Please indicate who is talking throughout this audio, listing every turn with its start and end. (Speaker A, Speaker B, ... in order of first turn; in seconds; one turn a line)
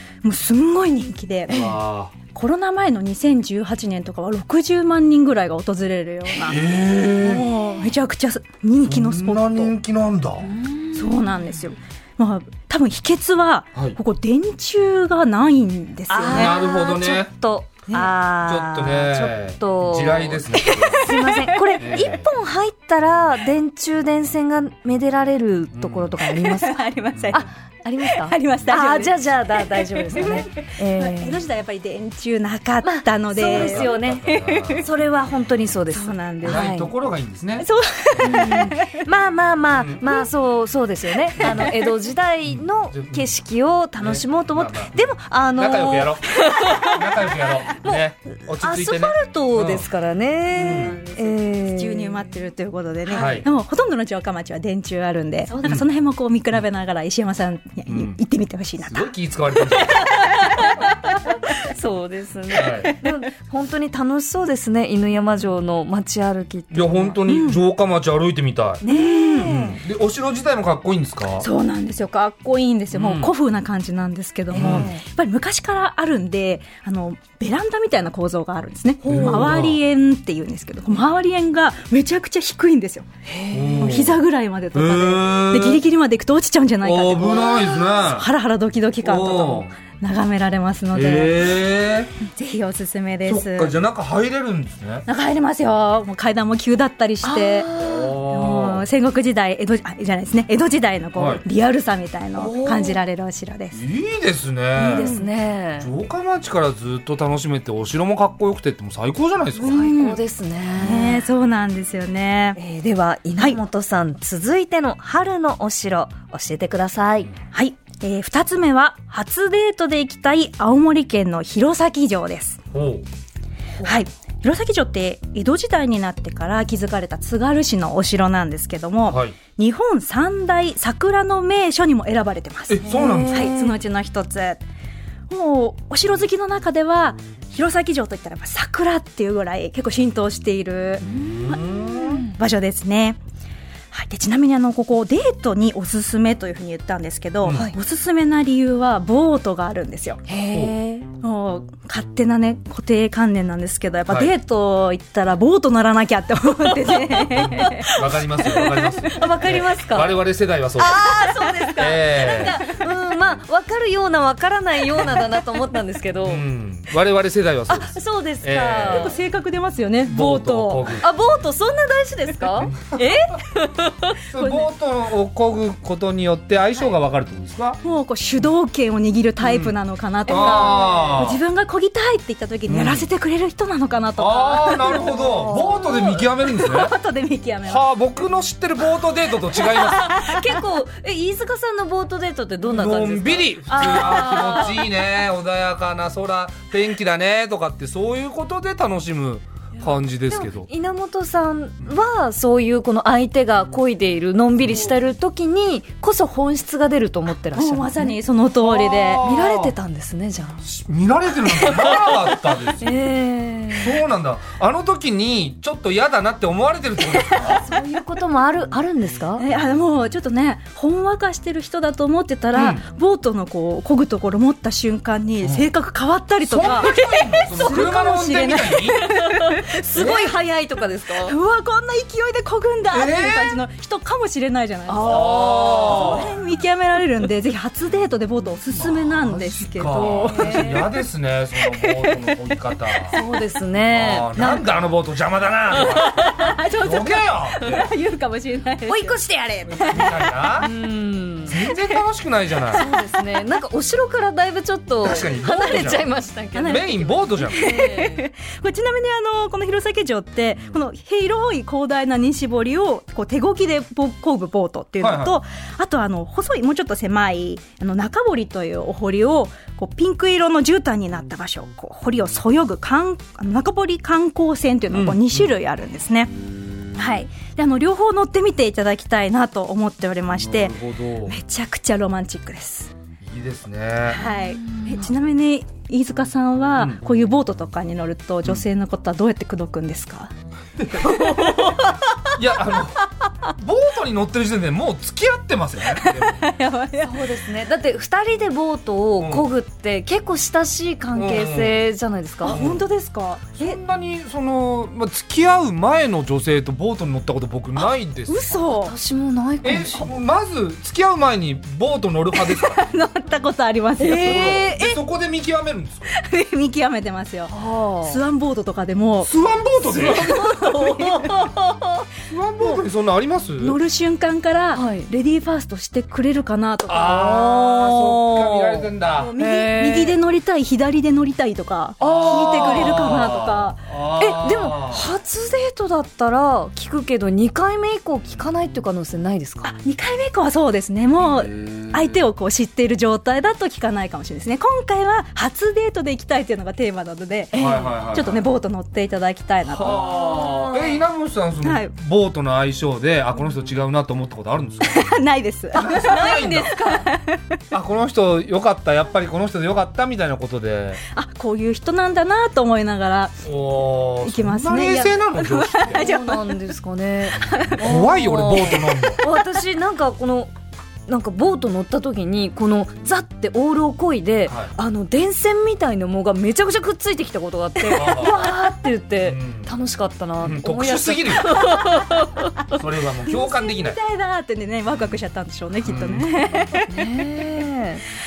Speaker A: 0.2-1.8
Speaker B: 1.5-2.1
Speaker A: 2.3-9.7
Speaker B: 6.3-7.5
Speaker B: 8.9-10.5
Speaker C: 10.4-11.5
Speaker A: 10.9-16.6
Speaker C: 16.1-20.5
Speaker B: 16.3-17.3
Speaker B: 17.9-21.1
Speaker A: 20.5-21.8
Speaker C: 21.0-31.4
Speaker B: 21.8-22.2
Speaker B: 25.7-26.1
Speaker A: 26.2-34.9
Speaker C: 32.8-36.9
Speaker B: 33.4-34.9
Speaker A: 35.9-36.7
Speaker B: 36.5-37.7
Speaker A: 37.6-39.0
Speaker C: 38.2-47.0
Speaker B: 39.7-40.0
Speaker B: 41.4-41.7
Speaker A: 41.4-41.9
Speaker B: 42.5-43.4
Speaker B: 44.0-49.9
Speaker C: 48.5-52.3
Speaker A: 50.5-60.9
Speaker B: 50.5-51.0
Speaker C: 53.1-53.4
Speaker B: 53.1-53.5
Speaker B: 57.9-58.2
Speaker B: 58.8-60.1
Speaker C: 60.5-67.2
Speaker B: 62.5-63.0
Speaker B: 66.7-68.8
Speaker A: 67.3-67.6
Speaker C: 68.8-69.8
Speaker A: 68.8-69.5
Speaker B: 69.5-71.5
Speaker A: 71.4-83.1
Speaker B: 72.9-73.3
Speaker C: 74.5-75.0
Speaker B: 74.5-74.9
Speaker C: 79.0-79.5
Speaker B: 79.1-79.8
Speaker C: 83.3-84.0
Speaker B: 83.5-84.2
Speaker A: 83.8-91.5
Speaker B: 84.7-85.8
Speaker B: 86.8-88.3
Speaker B: 89.0-89.7
Speaker B: 90.9-92.1
Speaker A: 92.2-93.8
Speaker B: 93.2-95.0
Speaker A: 95.1-97.7
Speaker C: 97.2-98.2
Speaker B: 97.8-98.8
Speaker A: 98.3-103.8
Speaker B: 101.2-101.4
Speaker C: 102.4-103.0
Speaker B: 103.7-105.1
Speaker C: 104.8-105.9
Speaker A: 104.9-105.3
Speaker B: 105.8-109.8
Speaker C: 109.6-111.3
Speaker A: 109.6-110.2
Speaker A: 110.8-112.6
Speaker C: 112.6-117.3
Speaker A: 117.5-122.6
Speaker B: 122.7-123.1
Speaker A: 123.8-134.6
Speaker B: 129.1-129.4
Speaker B: 132.7-133.5
Speaker C: 132.8-133.8
Speaker A: 135.3-143.2
Speaker C: 141.0-142.3
Speaker B: 141.1-142.2
Speaker A: 143.9-150.2
Speaker B: 147.4-147.7
Speaker C: 147.5-147.8
Speaker C: 150.3-151.1
Speaker A: 151.2-159.0
Speaker B: 154.1-154.3
Speaker B: 157.1-161.0
Speaker C: 157.7-158.1
Speaker C: 159.1-160.2
Speaker C: 160.8-166.4
Speaker A: 161.3-162.3
Speaker B: 161.8-162.6
Speaker B: 166.2-169.1
Speaker C: 167.7-169.2
Speaker A: 168.9-170.9
Speaker B: 170.1-171.1
Speaker C: 171.0-174.2
Speaker B: 172.6-173.0
Speaker B: 174.3-177.8
Speaker A: 174.4-174.7
Speaker A: 177.8-187.9
Speaker B: 179.4-179.8
Speaker B: 180.3-181.4
Speaker C: 180.3-181.2
Speaker B: 182.7-183.1
Speaker B: 184.2-187.0
Speaker C: 184.9-186.0
Speaker B: 187.6-190.1
Speaker A: 189.6-190.5
Speaker C: 189.6-194.9
Speaker B: 192.7-200.7
Speaker C: 200.3-208.2
Speaker B: 204.6-204.9
Speaker A: 207.5-209.3
Speaker B: 208.6-209.8
Speaker C: 209.2-210.6
Speaker B: 210.6-212.9
Speaker C: 211.5-212.0
Speaker C: 212.8-214.0
Speaker B: 213.7-217.6
Speaker C: 217.4-219.4
Speaker A: 219.4-230.3
Speaker B: 222.5-222.8
Speaker B: 225.4-225.7
Speaker B: 226.4-229.0
Speaker C: 229.0-231.4
Speaker B: 229.9-230.3
Speaker A: 231.2-240.7
Speaker B: 232.9-233.6
Speaker C: 234.9-236.3
Speaker B: 235.0-236.3
Speaker B: 238.7-243.2
Speaker C: 240.1-240.9
Speaker A: 241.6-243.2
Speaker C: 243.1-244.7
Speaker B: 243.9-246.2
Speaker C: 245.8-246.5
Speaker A: 245.8-250.3
Speaker B: 246.8-247.9
Speaker C: 248.9-249.3
Speaker C: 249.8-251.6
Speaker B: 249.8-250.7
Speaker B: 251.5-252.8
Speaker A: 251.7-252.0
Speaker C: 252.7-256.9
Speaker A: 252.8-253.2
Speaker B: 255.0-256.1
Speaker A: 255.1-255.9
Speaker A: 256.5-276.3
Speaker B: 256.7-257.6
Speaker C: 257.4-258.2
Speaker B: 265.0-265.4
Speaker B: 274.9-275.5
Speaker A: 277.0-282.9
Speaker B: 280.3-281.4
Speaker B: 283.2-284.2
Speaker A: 284.1-290.3
Speaker C: 284.2-285.1
Speaker B: 286.8-287.0
Speaker B: 290.8-291.5
Speaker A: 290.9-292.3
Speaker B: 292.4-296.4
Speaker A: 295.9-297.3
Speaker C: 297.0-302.6
Speaker B: 299.2-299.5
Speaker B: 301.1-301.8
Speaker A: 302.4-303.8
Speaker B: 302.4-302.9
Speaker B: 303.5-308.5
Speaker A: 307.8-308.9
Speaker C: 308.5-310.1
Speaker B: 309.6-312.9
Speaker A: 312.4-314.9
Speaker C: 314.0-314.9
Speaker B: 314.2-316.1
Speaker A: 316.1-321.9
Speaker C: 317.5-318.2
Speaker B: 319.3-320.5
Speaker C: 320.0-321.7
Speaker B: 322.3-323.8
Speaker A: 323.6-333.8
Speaker C: 324.7-325.1
Speaker B: 326.9-329.3
Speaker C: 329.4-330.2
Speaker C: 332.0-333.1
Speaker B: 332.0-335.1
Speaker C: 334.2-339.8
Speaker A: 339.6-350.0
Speaker B: 341.2-342.2
Speaker C: 347.5-348.0
Speaker B: 347.5-348.5
Speaker B: 349.6-355.2
Speaker C: 349.9-351.0
Speaker A: 351.6-351.9
Speaker A: 354.8-357.4
Speaker B: 355.7-356.8
Speaker C: 356.2-357.1
Speaker B: 357.7-361.0
Speaker A: 361.1-363.4
Speaker B: 363.4-366.0
Speaker A: 364.2-366.7
Speaker C: 365.8-370.5
Speaker A: 367.4-367.8
Speaker B: 367.7-369.2
Speaker C: 371.1-382.5
Speaker B: 374.5-374.7
Speaker A: 377.8-378.1
Speaker B: 377.9-378.5
Speaker B: 379.2-379.8
Speaker B: 380.4-381.5
Speaker B: 382.7-384.0
Speaker A: 383.2-387.3
Speaker B: 385.8-386.3
Speaker C: 386.8-388.1